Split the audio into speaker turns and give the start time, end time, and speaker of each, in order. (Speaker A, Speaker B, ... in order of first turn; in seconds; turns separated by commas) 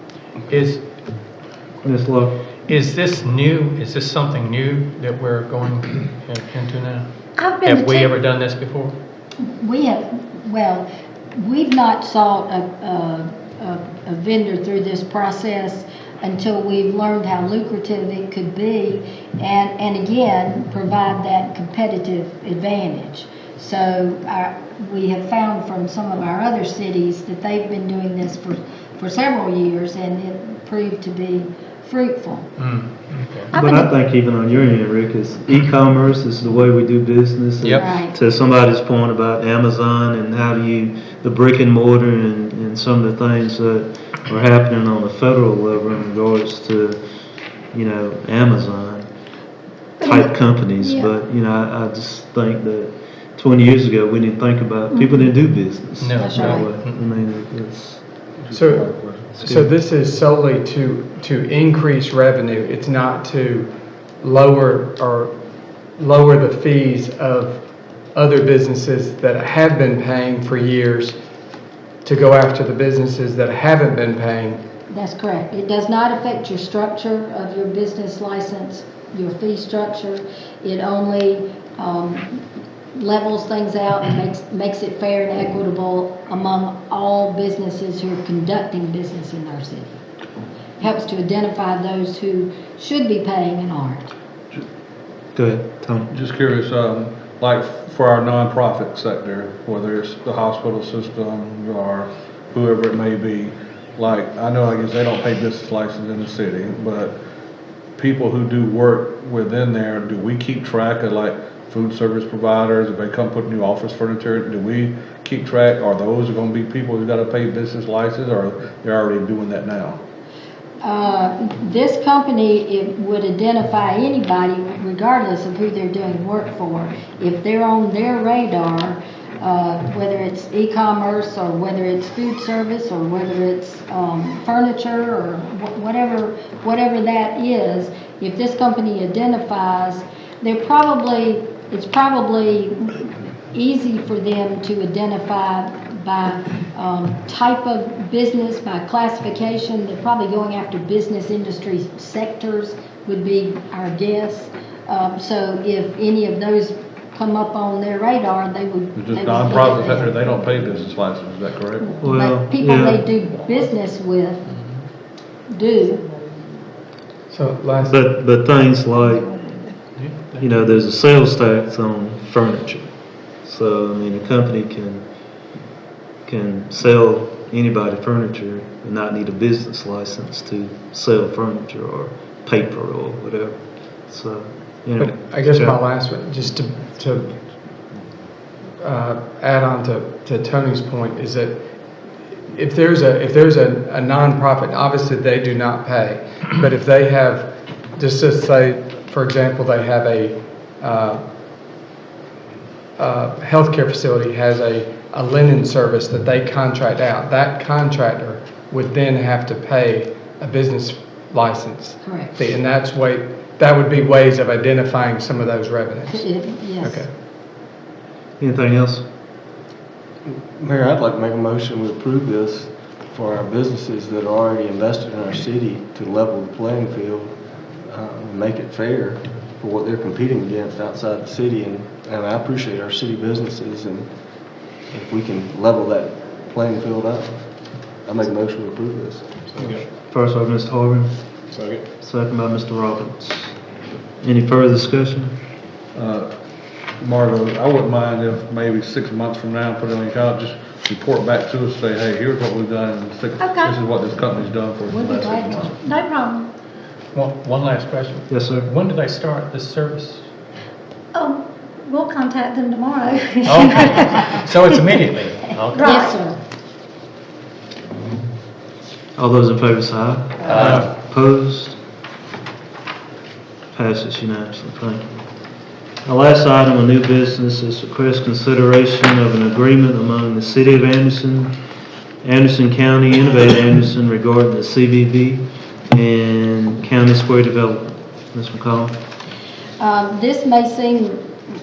Speaker A: 0.5-0.8, Speaker B: 1.8-2.4, Speaker A: 2.7-7.0, Speaker C: 7.3-8.1, Speaker A: 7.6-8.9, Speaker D: 9.5-32.5, Speaker A: 32.6-33.5, Speaker C: 33.5-33.9, Speaker B: 33.5-47.0, Speaker D: 37.8-38.1, Speaker B: 47.7-49.1, Speaker C: 50.0-51.1, Speaker B: 50.0-58.0, Speaker A: 56.0-57.0, Speaker D: 56.2-56.6, Speaker E: 58.5-65.3, Speaker B: 59.4-59.7, Speaker E: 66.0-67.6, Speaker E: 68.1-71.2, Speaker E: 72.0-74.6, Speaker D: 74.9-82.4, Speaker D: 82.9-89.9, Speaker D: 90.8-94.1, Speaker B: 95.3-96.1, Speaker F: 96.1-107.2, Speaker F: 108.0-120.0, Speaker D: 120.8-160.2, Speaker F: 158.9-161.9, Speaker D: 161.9-164.5, Speaker B: 162.0-163.0, Speaker D: 165.5-166.0, Speaker E: 167.3-167.9, Speaker B: 167.8-169.3, Speaker C: 169.2-169.7, Speaker A: 169.9-170.4, Speaker B: 170.4-172.9, Speaker B: 173.4-175.0, Speaker B: 176.2-183.6, Speaker B: 184.1-185.8, Speaker E: 185.0-187.3, Speaker E: 188.8-191.6, Speaker E: 192.5-201.2, Speaker E: 203.0-216.3, Speaker D: 212.0-212.4, Speaker D: 216.1-217.0, Speaker E: 216.8-217.1, Speaker B: 218.4-219.0, Speaker G: 220.3-227.3, Speaker G: 227.9-234.1, Speaker G: 234.9-237.4, Speaker G: 238.0-239.8, Speaker B: 240.1-241.1, Speaker B: 242.0-243.5, Speaker B: 244.2-245.3, Speaker F: 245.9-246.3, Speaker F: 247.0-255.7, Speaker C: 253.4-253.8, Speaker D: 254.9-255.8, Speaker C: 255.8-256.5, Speaker A: 257.1-260.2, Speaker B: 258.3-258.7, Speaker C: 261.1-264.3, Speaker A: 263.4-265.9, Speaker C: 265.7-266.2, Speaker D: 265.8-266.4, Speaker B: 269.2-271.8, Speaker A: 270.4-270.9, Speaker B: 273.7-275.2, Speaker B: 276.0-281.5, Speaker B: 282.2-289.0, Speaker D: 289.8-291.3